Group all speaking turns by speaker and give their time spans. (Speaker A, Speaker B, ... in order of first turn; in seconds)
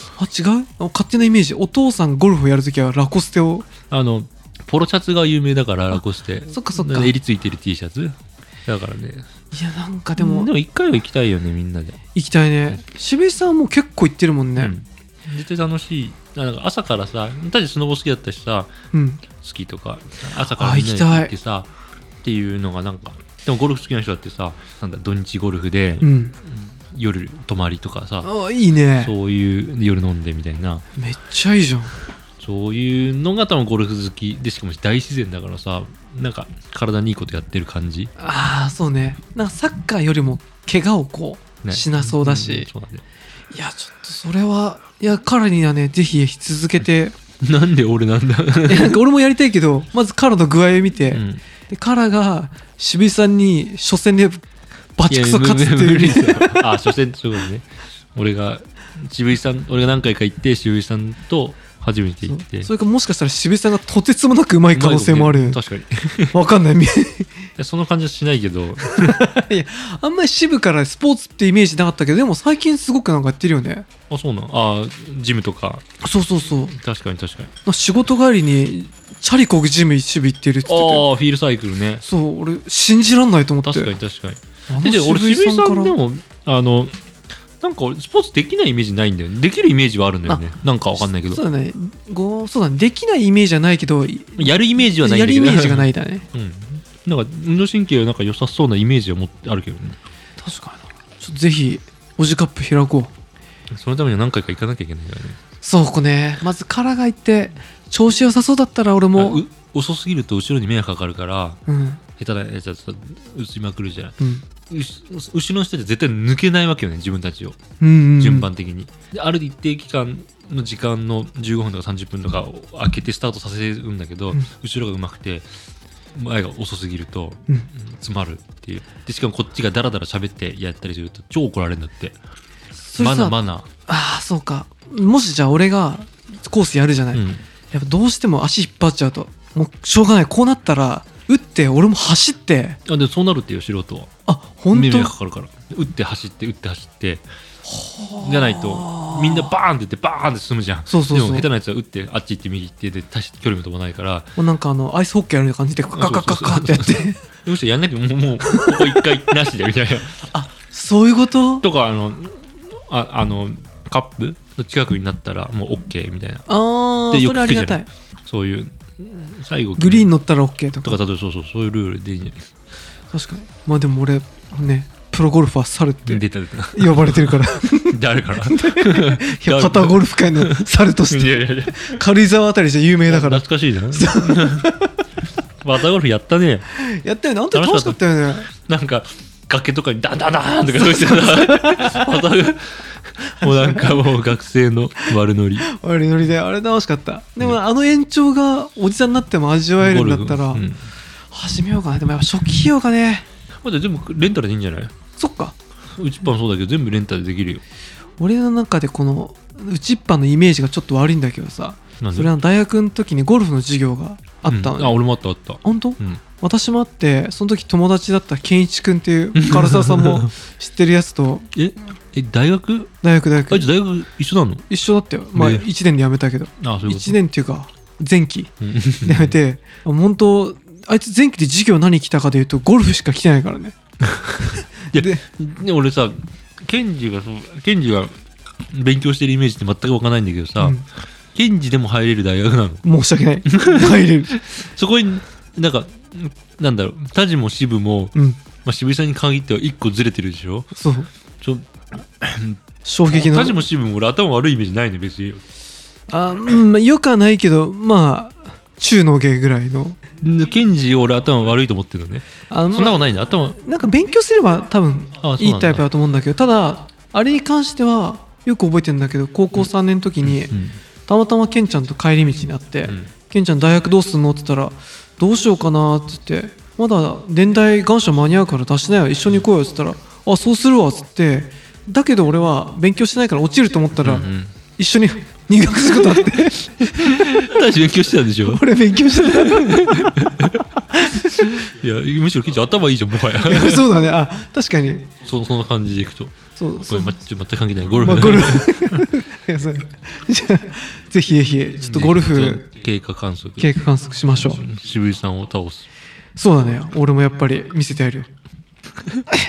Speaker A: 0.2-3.7, 6.5-7.1, 9.5-10.5, 12.1-14.7, 18.9-19.2, 20.5-21.3, 26.0-26.3, 28.2-29.1, 31.0-31.9, 38.2-42.7, 43.5-47.1, 48.7-54.4, 55.0-56.7, 62.2-65.6, 66.3-67.3, 68.8-73.9, 76.0-76.8, 77.6-81.1, 82.0-83.9, 84.7-85.9, 91.1-96.2, 100.4-103.1, 105.6-109.4, 111.7-112.0, 117.8-118.5, 132.7-133.3, 133.9-142.8, 144.3-145.1, 147.7-149.5, 150.9-151.5, 154.4-157.2, 158.4-159.0, 160.3-161.6, 166.5-167.9, 169.8-171.0, 173.1-185.0, 186.7-188.5, 190.7-192.3, 193.4-194.0, 195.7-200.7, 201.3-203.2, 205.2-205.5, 208.2-215.0, 215.6-221.5, 223.0-223.7, 224.7-228.5, 229.0-233.7, 234.9-235.2, 242.8-244.3, 250.7-251.1, 252.8-253.6, 256.1-260.0, 262.5-270.5, 271.1-287.5, 288.3-290.3, 290.9-291.5, 293.4-295.1, 296.6-297.1, 298.0-302.6, 303.6-304.6, 306.4-308.3
Speaker B: 3.9-9.3, 10.2-12.0, 14.6-18.7, 19.3-21.7, 22.2-28.3, 29.0-30.8, 32.4-38.1, 41.6-43.0, 47.4-49.0, 51.1-51.4, 55.1-62.7, 64.7-66.3, 67.6-69.2, 74.1-75.8, 76.7-77.5, 80.6-82.0, 83.6-86.9, 87.6-91.4, 94.4-100.0, 103.7-105.4, 109.2-111.6, 112.2-117.6, 118.2-125.4, 126.1-132.2, 133.0-133.7, 137.1-137.4, 142.8-144.1, 144.7-147.2, 148.2-154.3, 155.9-160.3, 161.6-166.5, 167.1-170.1, 170.8-172.5, 176.1-182.0, 183.1-184.7, 185.6-186.7, 187.5-195.7, 199.8-200.9, 203.6-204.9, 205.9-207.6, 212.0-212.3, 214.5-216.2, 219.3-220.3, 221.5-222.9, 223.5-224.7, 225.3-225.6, 226.6-227.2, 228.6-229.4, 234.0-238.1, 238.7-242.8, 243.5-250.7, 251.4-255.4, 260.2-263.6, 265.2-265.8, 270.2-270.8, 272.8-273.1, 284.0-284.5, 286.1-288.6, 289.2-290.6, 291.1-293.9, 295.2-299.1, 301.8-303.7, 304.3-305.9